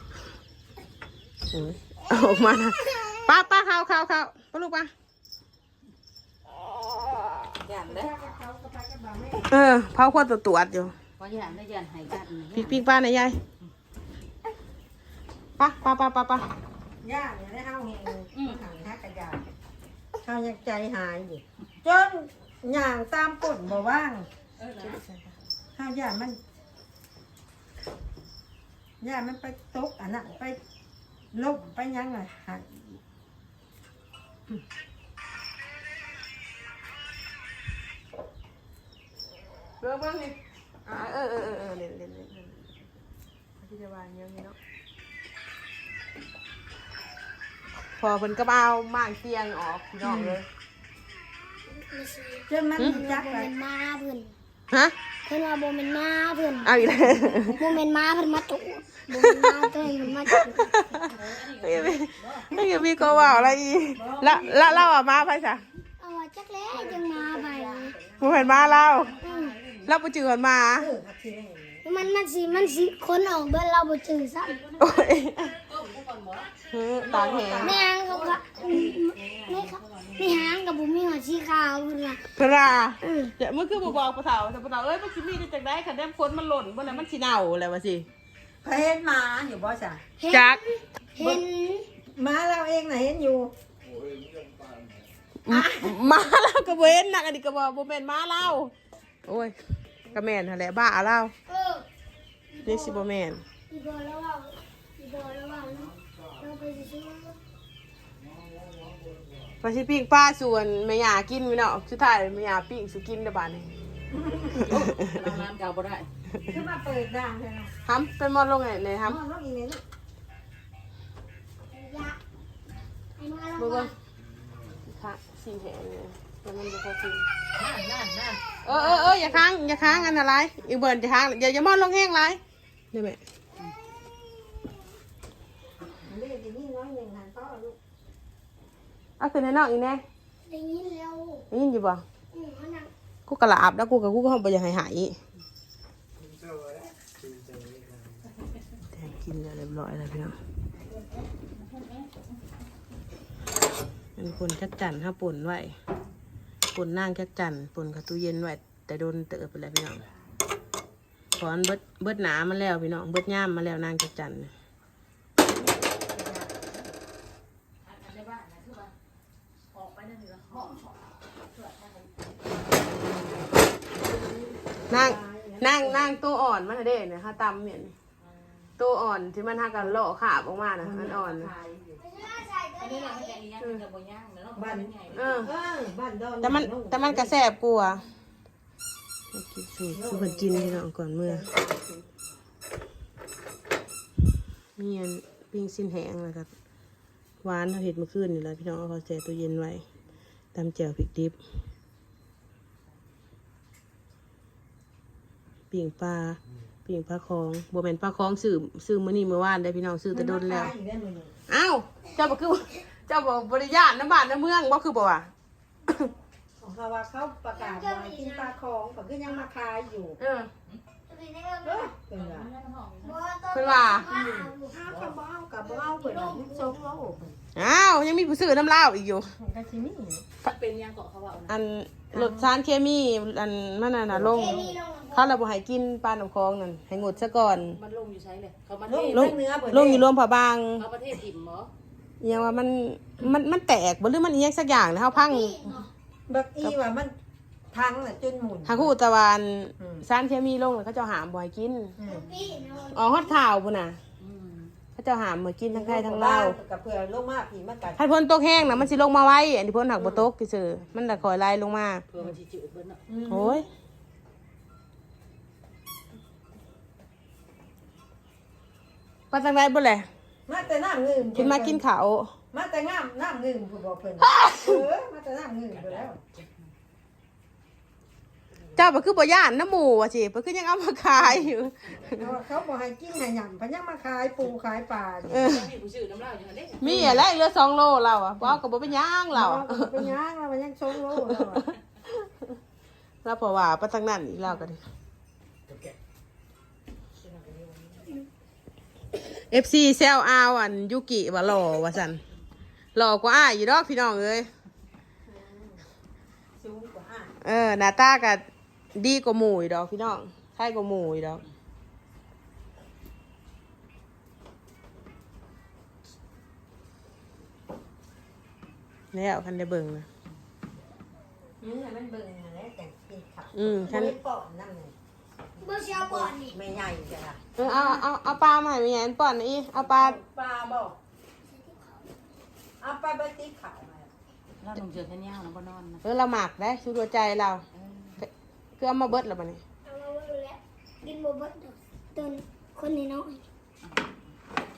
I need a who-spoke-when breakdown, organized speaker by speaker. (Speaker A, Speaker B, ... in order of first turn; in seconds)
Speaker A: 1.5-4.9, 9.5-11.0, 12.5-13.4, 15.6-16.5, 24.8-25.3, 39.8-42.7, 43.6-44.6, 48.0-50.5, 56.6-57.8, 59.2-59.7, 60.3-65.6, 68.2-69.2, 69.8-70.9, 74.8-75.6, 76.7-77.8, 82.4-88.1, 90.3-90.6, 95.4-98.7, 99.3-99.5, 100.1-101.3, 102.6-103.5, 109.6-113.7, 114.8-115.2, 117.8-119.2, 123.6-123.9, 124.8-127.2, 128.6-132.4, 132.9-133.2, 139.2-140.0, 141.5-142.0, 143.3-145.2, 148.9-150.4, 154.2-155.8, 156.7-160.0, 161.3-164.5, 174.9-177.9, 178.8-181.5, 185.1-185.5, 186.4-188.0, 189.3-191.5, 194.8-196.5, 197.4-199.8, 200.5-201.4, 205.7-210.7, 211.5-215.3, 220.2-220.5, 223.5-224.1, 227.6-229.3, 231.5-237.8, 239.1-240.9, 242.2-245.7, 248.7-252.0, 252.9-254.0, 255.0-256.6, 258.0-262.0, 263.3-263.7, 269.3-270.1, 271.3-272.3, 274.2-274.8, 278.7-282.3, 285.3-285.7, 286.8-290.1, 291.1-292.3, 293.2-294.8, 299.5-302.2, 302.9-304.5, 307.4-311.4, 319.1-320.1, 323.6-324.2, 327.6-330.2, 336.0-337.6, 338.2-339.6
Speaker B: 7.7-8.1, 11.2-12.8, 18.4-18.6, 24.6-25.0, 60.9-62.6, 69.0-69.9, 74.5-74.8, 75.6-76.5, 79.5-80.3, 114.6-116.1, 127.6-128.4, 151.5-152.2, 167.8-168.9, 169.7-172.5, 178.2-178.6, 182.8-185.5, 222.1-223.2, 230.4-231.6, 237.5-239.3, 240.8-241.7, 254.2-254.8, 262.1-263.0, 285.4-287.2, 334.6-336.0, 337.7-338.2, 343.8-344.4
Speaker C: 7.8-9.5, 17.0-19.4, 20.2-24.3, 25.8-26.4, 29.0-30.6, 31.3-33.0, 50.0-50.4, 52.5-53.5, 56.9-57.6, 63.9-65.0, 66.7-68.8, 70.8-71.9, 77.0-79.3, 88.6-90.0, 91.2-91.4, 92.1-93.5, 95.5-96.0, 114.1-114.7, 116.5-117.7, 119.0-119.8, 128.7-129.5, 136.0-137.8, 165.4-166.9, 173.9-176.2, 180.8-182.0, 184.6-187.3, 189.9-192.1, 210.1-211.3, 216.6-220.2, 221.6-222.5, 224.1-227.4, 229.4-230.3, 232.1-232.5, 234.1-234.8, 238.9-240.1, 246.3-247.2, 247.7-248.9, 249.8-250.0, 252.0-252.3, 255.7-258.0, 260.0-260.3, 263.1-263.6, 270.5-271.8, 272.5-276.2, 282.1-285.5, 286.9-287.2, 289.3-291.7, 297.3-298.1, 305.3-305.8, 306.6-307.4, 321.6-324.9, 325.9-328.1, 329.7-331.0, 332.8-334.1
Speaker D: 51.7-54.4, 55.3-56.8, 57.5-60.7, 66.0-68.0, 69.2-69.6, 71.8-74.6, 77.6-82.2, 83.0-83.3, 90.2-91.9, 101.5-101.9, 102.5-103.0, 103.6-107.4, 121.7-122.2, 123.2-123.9, 140.5-141.5, 142.3-142.9, 182.0-183.4, 217.6-218.5, 221.1-221.9, 223.0-226.8, 234.3-235.4, 245.1-245.9, 252.1-253.4, 325.6-326.6, 331.5-332.1, 339.9-343.4
Speaker E: 146.2-148.2